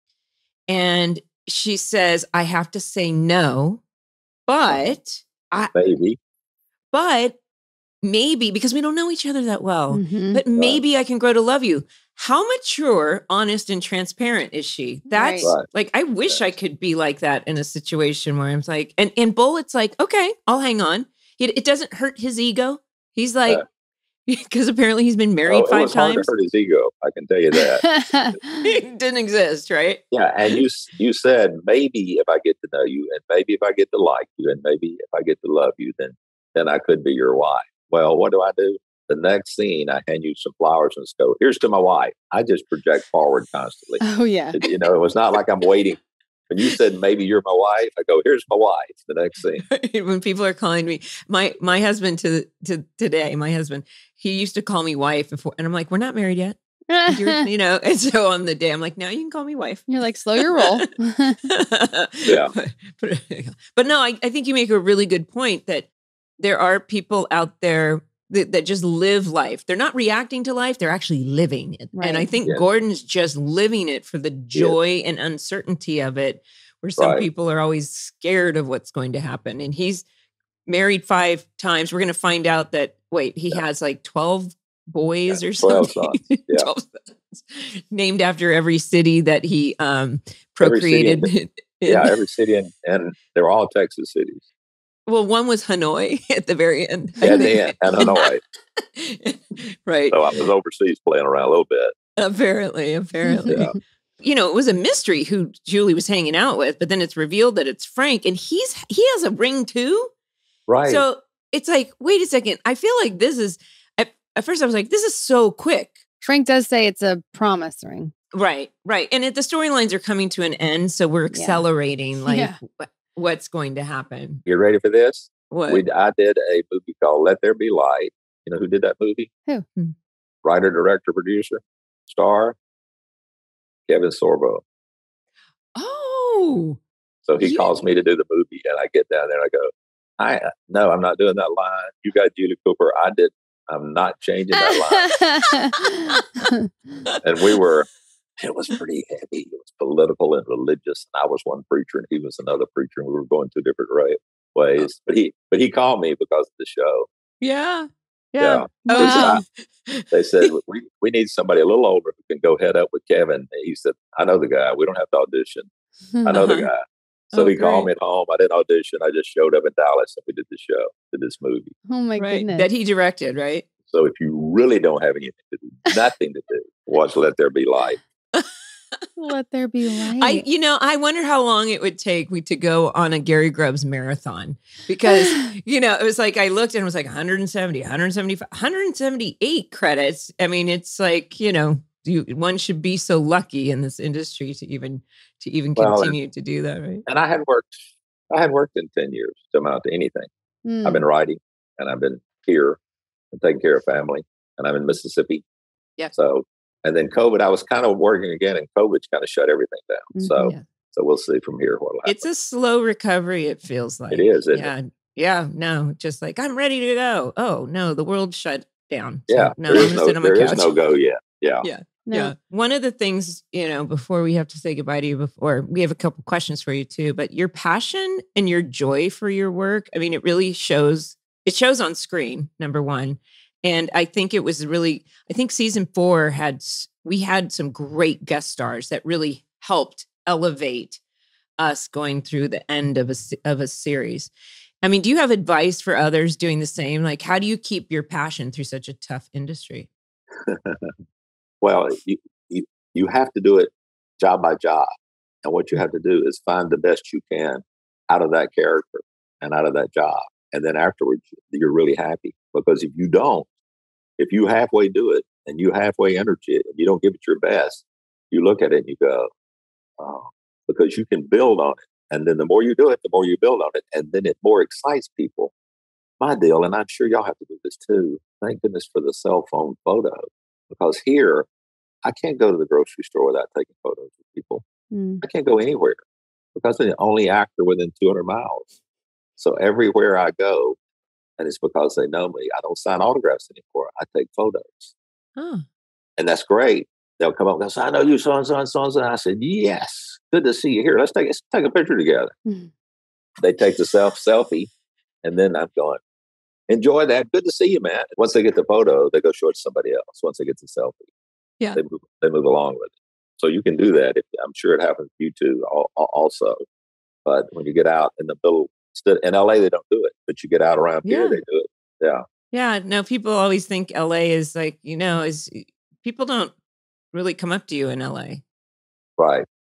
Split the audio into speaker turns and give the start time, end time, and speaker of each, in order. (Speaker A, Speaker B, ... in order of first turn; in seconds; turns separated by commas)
Speaker A: 0.7-3.8, Speaker A: 4.5-5.7, Speaker B: 5.7-6.2, Speaker A: 6.9-7.4, Speaker A: 8.0-23.6, Speaker C: 9.9-10.4, Speaker C: 15.1-15.5, Speaker A: 24.3-26.3, Speaker B: 25.4-27.8, Speaker C: 27.8-28.6, Speaker A: 28.6-30.0, Speaker B: 30.1-49.6, Speaker C: 44.0-44.6, Speaker A: 49.7-56.5, Speaker C: 56.9-57.4, Speaker A: 57.1-60.9, Speaker C: 59.9-61.4, Speaker A: 61.5-65.9, Speaker B: 62.2-62.5, Speaker A: 66.4-80.0, Speaker C: 71.9-72.3, Speaker B: 77.0-77.2, Speaker A: 80.7-92.2, Speaker B: 85.3-86.7, Speaker B: 90.6-91.3, Speaker B: 91.8-94.4, Speaker A: 95.1-100.2, Speaker B: 97.2-98.4, Speaker B: 100.1-102.0, Speaker A: 102.2-103.7, Speaker C: 103.2-103.7, Speaker A: 104.2-110.1, Speaker B: 110.7-111.0, Speaker A: 110.8-116.0, Speaker C: 116.2-118.1, Speaker A: 118.3-124.4, Speaker C: 121.3-121.6, Speaker C: 122.2-122.6, Speaker B: 124.5-129.3, Speaker A: 125.5-125.8, Speaker B: 130.4-132.6, Speaker B: 133.9-134.6, Speaker A: 135.8-136.8, Speaker B: 137.3-145.2, Speaker A: 137.4-137.7, Speaker C: 145.0-146.6, Speaker B: 147.2-147.9, Speaker B: 148.4-157.1, Speaker A: 157.4-160.5, Speaker B: 158.4-159.4, Speaker C: 158.8-159.4, Speaker B: 160.1-165.7, Speaker B: 166.2-171.7, Speaker A: 166.3-166.7, Speaker A: 167.3-167.9, Speaker C: 171.9-172.7, Speaker A: 172.2-173.7, Speaker B: 173.9-178.0, Speaker C: 179.2-180.4, Speaker A: 180.2-197.0, Speaker C: 185.1-185.4, Speaker B: 195.8-196.2, Speaker B: 197.1-197.7, Speaker B: 198.3-200.3, Speaker C: 200.6-201.0, Speaker B: 200.8-202.8, Speaker B: 203.3-205.4, Speaker B: 206.1-212.2, Speaker C: 210.1-210.5, Speaker A: 212.0-220.7, Speaker B: 214.1-214.7, Speaker B: 219.3-221.7, Speaker A: 221.6-241.0, Speaker C: 222.1-222.3, Speaker A: 241.6-244.3, Speaker A: 244.8-249.9, Speaker B: 250.4-250.9, Speaker B: 251.6-254.9, Speaker B: 255.4-263.5, Speaker B: 264.2-269.3, Speaker B: 270.0-275.5, Speaker B: 276.2-281.5, Speaker B: 282.0-284.6, Speaker C: 284.9-285.2, Speaker B: 285.2-286.0, Speaker B: 286.5-288.6, Speaker B: 289.4-290.8, Speaker B: 291.4-294.9, Speaker A: 295.4-295.6, Speaker B: 296.2-302.3, Speaker B: 303.4-304.7, Speaker B: 305.2-306.0, Speaker B: 306.7-311.1, Speaker B: 311.7-316.6, Speaker B: 317.2-322.2, Speaker A: 321.0-321.4, Speaker A: 322.5-326.5, Speaker A: 327.1-328.4, Speaker B: 329.2-329.4